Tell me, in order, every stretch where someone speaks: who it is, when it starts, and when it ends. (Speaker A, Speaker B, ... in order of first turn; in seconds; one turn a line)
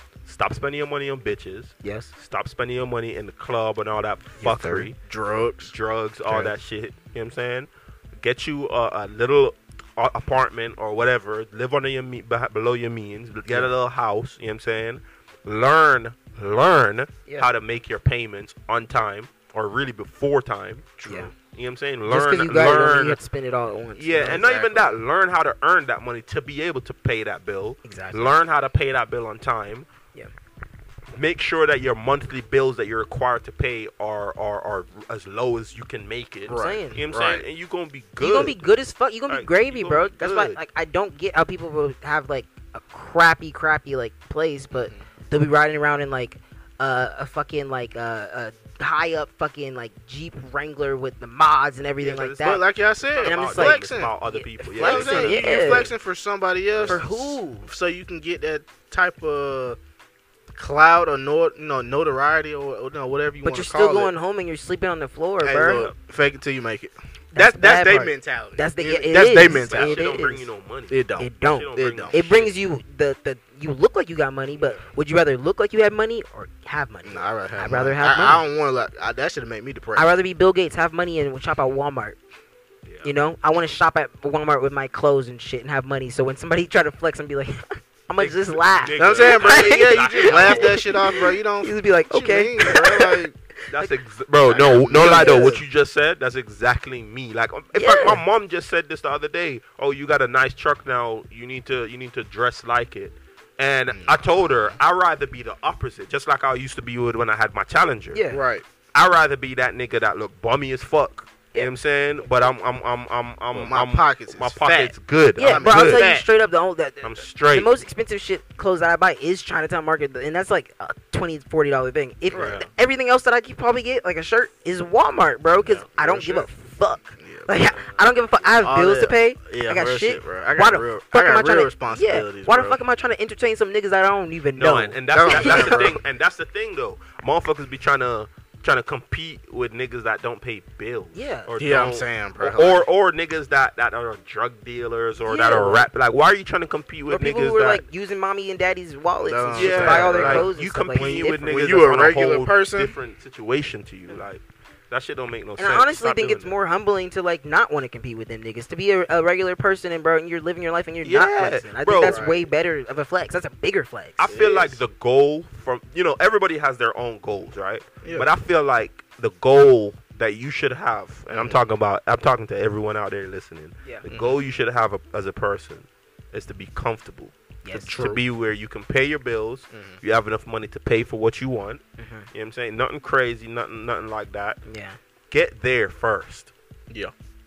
Speaker A: 0.2-5.0
Speaker B: 1.8-2.1
Speaker C: 4.4-5.7
Speaker A: 5.7-23.2
Speaker C: 6.3-6.5
Speaker C: 21.0-21.3
Speaker B: 21.1-21.3
Speaker B: 22.1-24.5
Speaker A: 23.9-29.9
Speaker C: 24.2-24.9
Speaker B: 27.8-28.3
Speaker A: 31.1-38.7
Speaker C: 36.5-37.4
Speaker B: 36.5-37.0
Speaker B: 38.2-52.6
Speaker A: 39.3-40.6
Speaker C: 44.7-45.0
Speaker A: 52.0-55.9
Speaker C: 52.4-54.1
Speaker B: 53.2-55.9
Speaker C: 54.7-59.8
Speaker A: 56.8-57.0
Speaker B: 56.9-57.7
Speaker C: 60.5-64.1
Speaker B: 63.4-65.8
Speaker C: 65.4-70.2
Speaker A: 65.6-65.9
Speaker B: 67.3-70.5
Speaker A: 69.3-72.5
Speaker C: 70.9-72.2
Speaker B: 71.2-78.4
Speaker A: 74.6-74.8
Speaker C: 77.0-80.1
Speaker B: 79.9-82.2
Speaker A: 82.8-83.1
Speaker B: 83.0-93.9
Speaker A: 88.2-90.9
Speaker C: 89.0-93.3
Speaker A: 93.7-108.2
Speaker C: 94.5-95.6
Speaker B: 95.0-95.6
Speaker B: 97.7-98.2
Speaker C: 103.9-104.7
Speaker B: 108.1-108.4
Speaker C: 108.3-108.6
Speaker A: 108.9-116.1
Speaker C: 113.5-116.2
Speaker B: 115.4-135.9
Speaker A: 117.0-117.7
Speaker C: 122.3-122.6
Speaker A: 122.3-122.7
Speaker C: 125.7-126.5
Speaker C: 127.2-127.6
Speaker A: 127.6-128.0
Speaker C: 128.6-132.8
Speaker A: 134.6-147.8
Speaker C: 135.1-136.0
Speaker B: 141.1-141.5
Speaker C: 141.6-142.9
Speaker B: 145.2-145.9
Speaker B: 147.1-151.6
Speaker C: 149.2-150.5
Speaker A: 149.6-156.6
Speaker C: 151.4-152.9
Speaker B: 155.6-164.2
Speaker A: 161.0-162.2
Speaker C: 162.0-162.5
Speaker A: 164.2-181.8
Speaker C: 164.3-164.8
Speaker C: 168.0-168.3
Speaker C: 171.3-171.6
Speaker C: 174.1-174.4
Speaker B: 177.6-178.2
Speaker C: 177.9-178.2
Speaker C: 179.7-180.0
Speaker B: 182.0-182.3
Speaker A: 182.3-184.6
Speaker B: 184.6-185.0
Speaker A: 185.3-186.5